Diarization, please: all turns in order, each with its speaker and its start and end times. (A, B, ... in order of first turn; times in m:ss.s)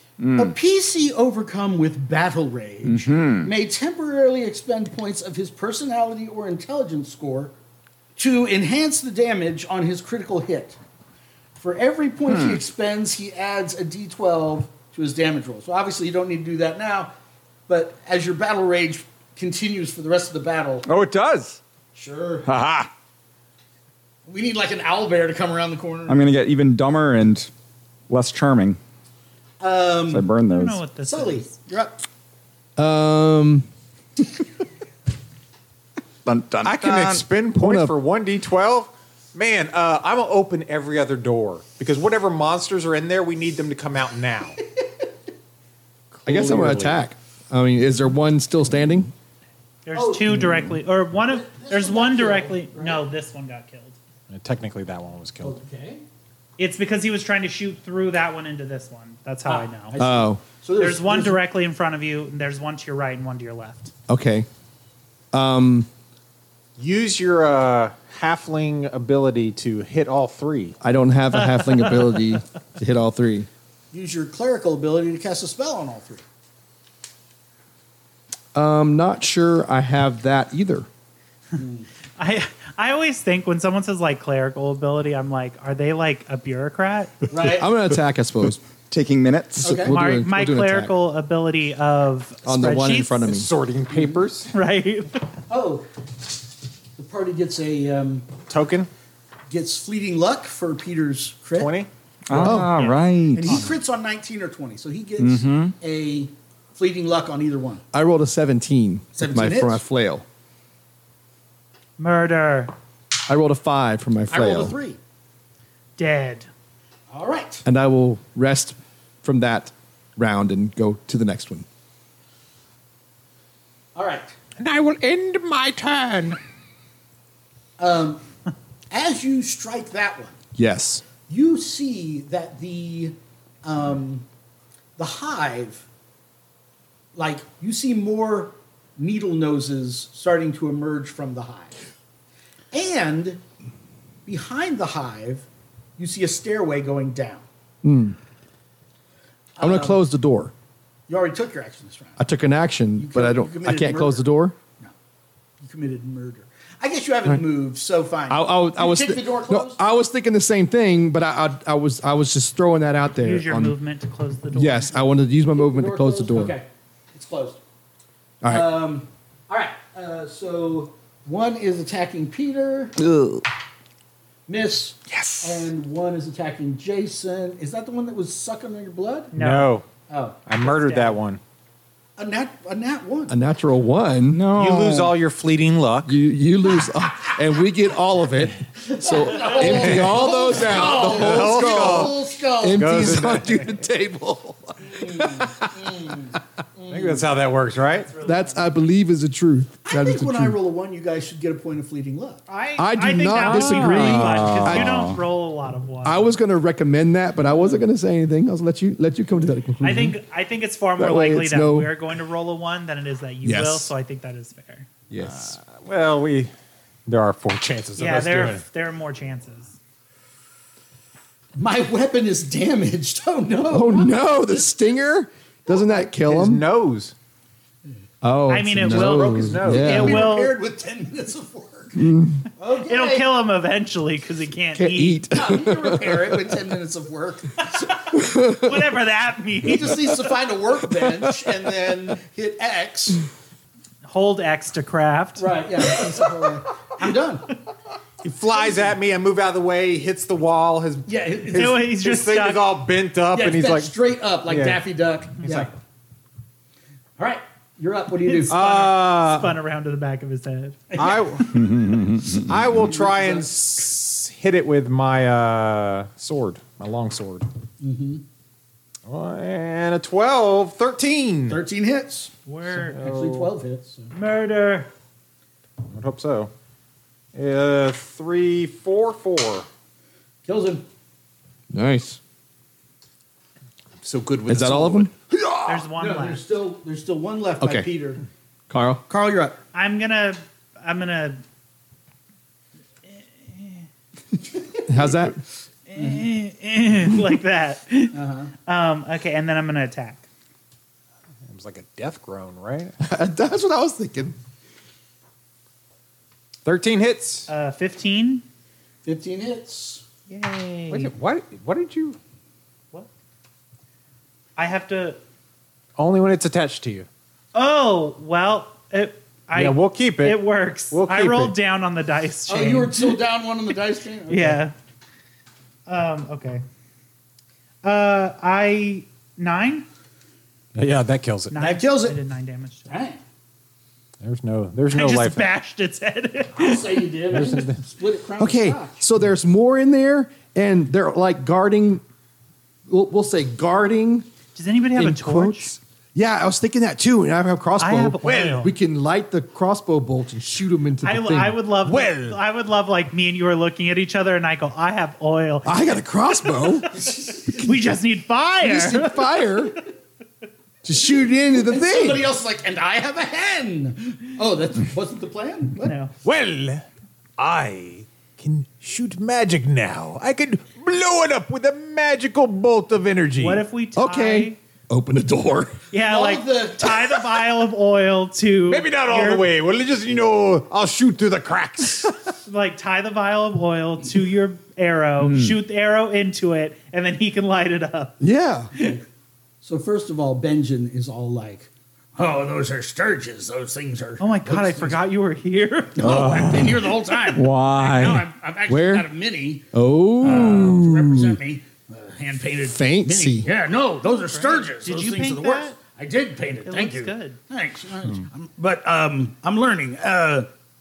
0:00.2-0:00.5 A
0:00.4-0:07.5 B
0:02.8-0:03.5 A
0:08.2-0:10.8 B
0:11.6-0:17.1 B
0:12.3-0:12.6 A
0:17.7-0:20.9 B
0:20.8-0:21.6 A
0:21.9-0:22.5 B
0:22.4-0:22.9 A
0:24.2-0:26.2 B
0:26.1-0:27.5 A
0:28.1-0:28.8 A
0:29.6-0:30.3 B
0:30.1-0:30.8 A
0:30.5-0:31.5 C
0:31.0-0:32.0 B
0:32.8-0:33.7 D
0:36.2-0:37.2 A
0:36.6-0:44.6 E
0:37.6-0:37.9 D
0:46.1-0:47.0 E
0:46.2-0:49.1 D
0:49.8-0:54.0 C
0:49.9-0:50.7 B
0:51.2-0:53.0 B
0:54.3-0:55.6 E
0:55.4-0:56.0 B
0:56.6-1:00.0 C
0:59.4-1:01.4 B
1:00.0-1:00.4 D
1:00.8-1:03.9 C
1:04.1-1:04.5 D
1:05.3-1:05.9 D
1:06.8-1:10.8 E
1:10.8-1:13.5 D
1:11.4-1:12.2 C
1:13.9-1:16.2 B
1:18.5-1:20.9 D
1:21.6-1:21.9 B
1:22.2-1:27.2 C
1:27.3-1:27.7 B
1:27.4-1:28.6 D
1:28.9-1:29.8 A
1:29.6-1:30.9 D
1:29.6-1:30.0 B
1:29.9-1:33.3 C
1:32.4-1:33.5 D
1:33.2-1:34.5 E
1:33.9-1:34.2 B
1:34.5-1:35.2 C
1:35.5-1:35.8 B
1:37.0-1:38.3 B
1:38.5-1:38.9 E
1:39.5-1:41.7 B
1:41.5-1:41.9 E
1:42.3-1:43.7 A
1:42.4-1:42.7 D
1:42.6-1:43.7 C
1:43.3-1:47.8 B
1:45.2-1:45.7 A
1:47.9-1:50.2 D
1:49.2-1:49.8 B
1:52.0-1:52.7 C
1:53.3-1:54.8 D
1:54.3-1:55.0 B
1:56.0-1:56.5 C
1:57.1-1:57.6 B
1:57.6-2:01.6 D
2:03.9-2:04.3 B
2:04.6-2:06.4 E
2:07.8-2:08.2 B
2:08.9-2:10.4 B
2:10.5-2:11.0 D
2:11.2-2:14.2 B
2:15.0-2:15.8 B
2:17.1-2:21.7 B
2:22.7-2:23.4 B
2:24.2-2:25.4 B
2:26.0-2:27.4 B
2:27.8-2:28.2 D
2:29.6-2:30.0 B
2:29.6-2:30.5 D
2:31.1-2:32.2 B
2:32.2-2:34.5 D
2:33.0-2:34.2 B
2:35.6-2:39.8 B
2:38.3-2:43.7 D
2:43.1-2:44.9 C
2:44.5-2:46.6 D
2:45.6-2:47.6 B
2:48.4-2:48.7 D
2:48.4-2:53.0 B
2:53.0-2:53.4 A
2:54.5-2:59.3 B
2:55.1-2:55.6 A
2:59.3-2:59.8 C
2:59.3-2:59.8 E
3:00.1-3:00.4 B
3:00.4-3:01.4 E
3:00.6-3:01.2 C
3:02.2-3:03.3 B
3:03.3-3:04.4 D
3:04.3-3:05.1 A
3:04.5-3:06.2 E
3:06.0-3:16.1 D
3:08.8-3:13.1 B
3:09.4-3:09.6 C
3:09.6-3:12.2 E
3:12.8-3:13.7 E
3:14.8-3:17.3 B
3:16.9-3:18.1 E
3:17.9-3:18.7 C
3:18.2-3:20.6 D
3:19.8-3:22.4 B
3:22.5-3:26.3 C
3:22.8-3:25.0 D
3:23.5-3:25.2 A
3:26.0-3:30.2 D
3:29.8-3:34.9 C
3:31.0-3:31.9 D
3:33.4-3:33.9 D
3:35.1-3:35.6 D
3:35.2-3:36.5 E
3:37.0-3:38.6 E
3:38.0-3:39.8 C
3:41.6-3:44.4 B
3:43.7-3:46.6 D
3:46.2-3:47.1 E
3:48.2-3:50.3 D
3:48.5-3:50.6 C
3:48.9-3:50.0 E
3:49.3-3:52.0 B
3:52.0-3:52.4 D
3:52.6-3:53.3 B
3:52.8-3:55.3 C
3:54.7-3:56.6 D
3:55.3-3:58.0 B
3:57.6-4:00.1 C
3:58.1-3:58.9 D
3:59.6-4:03.2 B
4:00.9-4:01.6 D
4:04.0-4:05.5 C
4:05.4-4:07.6 B
4:08.2-4:13.9 E
4:08.5-4:08.9 B
4:11.1-4:11.8 B
4:11.5-4:12.6 C
4:13.3-4:15.7 B
4:14.4-4:14.8 E
4:15.4-4:15.7 E
4:17.2-4:18.6 B
4:18.2-4:20.9 C
4:18.5-4:19.6 E
4:20.9-4:21.4 B
4:21.0-4:27.5 E
4:21.5-4:22.4 A
4:22.8-4:23.6 B
4:27.8-4:28.2 B
4:29.0-4:31.6 E
4:31.5-4:32.3 B
4:32.4-4:33.0 C
4:32.7-4:33.5 E
4:33.0-4:34.1 B
4:34.1-4:34.9 C
4:35.9-4:36.5 E
4:37.3-4:39.6 E
4:40.4-4:40.8 B
4:41.7-4:42.2 D
4:44.0-4:45.1 E
4:44.5-4:45.1 D
4:45.4-4:48.2 B
4:45.6-4:46.4 C
4:47.6-4:47.9 D
4:48.7-4:49.0 D
4:49.1-4:49.6 B
4:49.7-4:51.4 C
4:53.1-4:53.8 C
4:54.9-4:55.4 D
4:55.9-5:00.2 C
4:58.1-4:58.5 B
5:01.5-5:03.0 E
5:03.0-5:04.4 D
5:06.6-5:07.5 E
5:07.5-5:08.4 C
5:09.0-5:10.0 B
5:10.3-5:11.1 C
5:10.9-5:12.2 E
5:14.6-5:15.2 C
5:16.0-5:17.1 E
5:17.5-5:23.2 C
5:19.5-5:21.5 E
5:22.5-5:24.6 B
5:24.3-5:24.7 C
5:25.9-5:26.6 C
5:27.8-5:29.8 C
5:30.7-5:31.6 E
5:31.5-5:33.0 C
5:31.6-5:32.2 B
5:32.9-5:33.2 B
5:34.2-5:35.5 E
5:34.9-5:37.5 C
5:36.6-5:39.0 B
5:37.3-5:37.8 E
5:38.4-5:42.0 D
5:42.9-5:44.3 D
5:44.5-5:45.7 C
5:45.0-5:51.6 D
5:47.8-5:48.7 C
5:48.2-5:48.7 E
5:51.0-5:55.8 C
5:51.8-5:52.4 E
5:55.6-5:57.0 D
5:56.6-5:59.5 C
5:57.0-5:57.6 B
5:58.6-5:59.8 D
6:00.8-6:02.3 D
6:01.6-6:06.0 B
6:05.8-6:06.1 C
6:06.2-6:06.8 E
6:07.4-6:13.6 E
6:13.4-6:14.6 C
6:14.0-6:15.8 D
6:15.9-6:19.5 C
6:16.0-6:17.2 B
6:18.7-6:22.2 E
6:22.4-6:28.2 C
6:25.2-6:25.6 A
6:28.2-6:28.7 D
6:28.7-6:29.0 C
6:29.6-6:35.0 B
6:34.2-6:37.4 C
6:36.0-6:50.5 B
6:36.4-6:36.8 E
6:37.3-6:38.2 A
6:38.7-6:39.1 D
6:39.7-6:41.4 D
6:42.6-6:43.5 D
6:44.0-6:45.8 C
6:46.6-6:47.4 C